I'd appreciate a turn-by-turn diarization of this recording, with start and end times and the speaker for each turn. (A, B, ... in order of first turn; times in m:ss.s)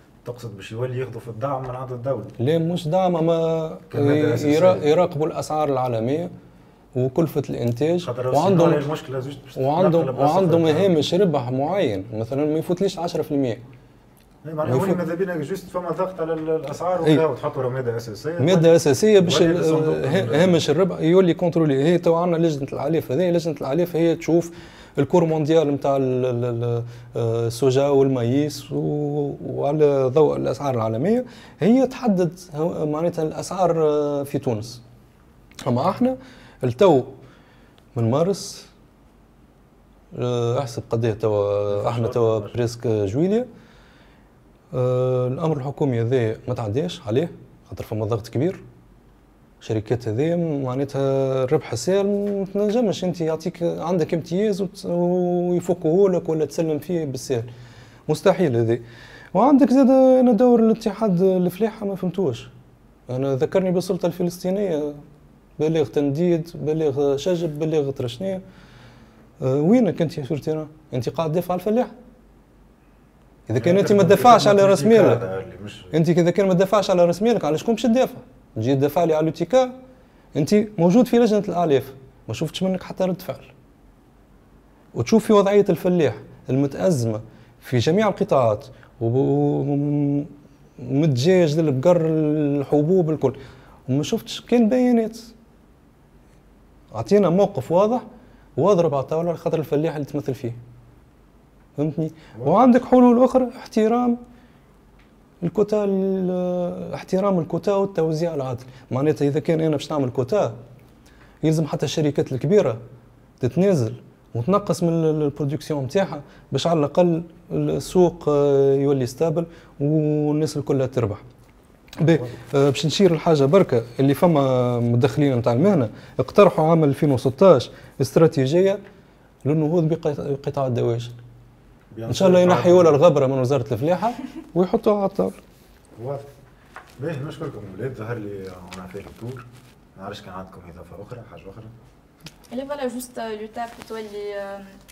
0:00.2-0:02.4 A
0:02.4-0:06.3 B
0:03.9-0:04.9 A
0:07.0-0:08.9 B
0:08.0-0:11.0 A
0:09.6-0:13.6 B
0:14.4-0:20.6 A
0:14.6-0:15.0 B
0:18.4-0:34.8 B
0:35.6-0:37.2 B
0:37.9-0:38.7 B
0:40.1-0:43.5 B
0:41.7-0:42.6 A
0:44.7-0:48.6 B
0:49.6-0:57.5 B
0:58.1-1:02.5 B
1:03.1-1:05.0 B
1:05.6-1:08.4 B
1:09.4-1:11.9 B
1:13.5-1:15.2 B
1:13.6-1:16.0 A
1:15.9-1:19.7 B
1:20.3-1:23.5 B
1:24.9-1:35.3 B
1:36.9-1:38.0 B
1:38.6-1:40.6 B
1:41.8-1:44.2 B
1:45.4-1:50.6 B
1:51.4-1:52.8 B
1:53.4-2:01.2 B
2:02.0-2:08.8 B
2:02.0-2:02.3 A
2:09.4-2:11.2 B
2:11.9-2:13.0 A
2:12.1-2:15.4 B
2:16.0-2:16.3 A
2:17.0-2:21.7 A
2:22.5-2:24.8 C